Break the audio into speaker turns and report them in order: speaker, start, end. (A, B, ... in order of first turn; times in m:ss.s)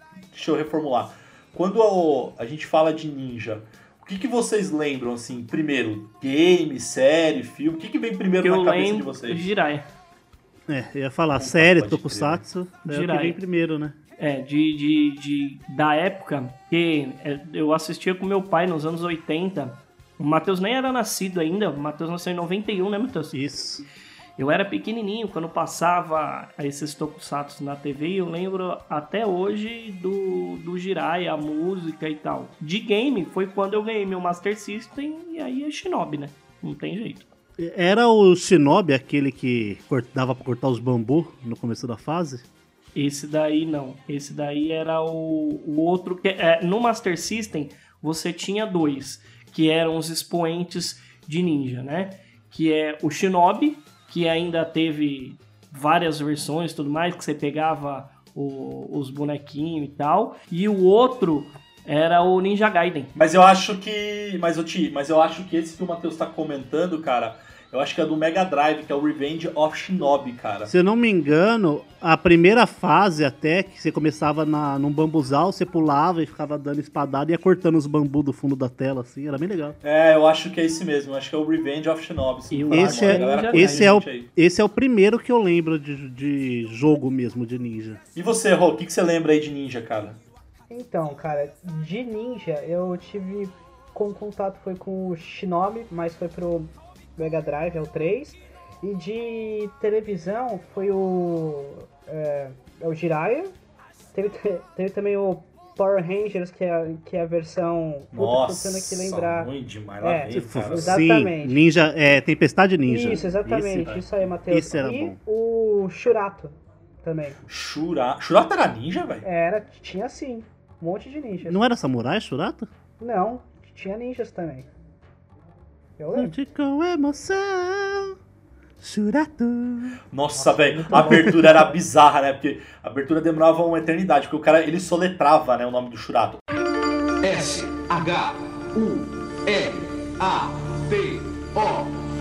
0:00.3-0:09.5 A
0:08.4-0:09.9 B
0:10.7-0:14.0 C
0:11.4-0:12.4 A
0:12.9-0:13.4 B
0:14.2-0:23.4 B
0:23.3-0:23.8 C
0:24.4-0:37.3 B
0:37.6-0:42.5 C
0:43.0-1:03.1 B
1:03.2-1:10.7 A
1:10.7-1:19.8 C
1:19.8-1:24.3 A
1:22.5-1:23.9 B
1:22.7-1:28.0 C
1:28.2-1:30.2 A
1:30.7-1:43.5 D
1:44.1-1:49.5 D
1:48.1-1:51.0 A
1:50.0-1:51.6 D
1:50.3-1:53.4 C
1:52.9-1:57.4 D
1:53.3-1:54.3 A
1:54.5-1:55.2 C
1:57.5-1:59.3 A
1:59.2-2:01.6 D
2:01.4-2:02.7 C
2:03.0-2:04.7 D
2:06.0-2:06.3 D
2:06.1-2:08.2 C
2:08.8-2:10.0 C
2:10.1-2:16.4 A
2:10.4-2:11.7 D
2:10.9-2:11.6 C
2:17.2-2:21.9 E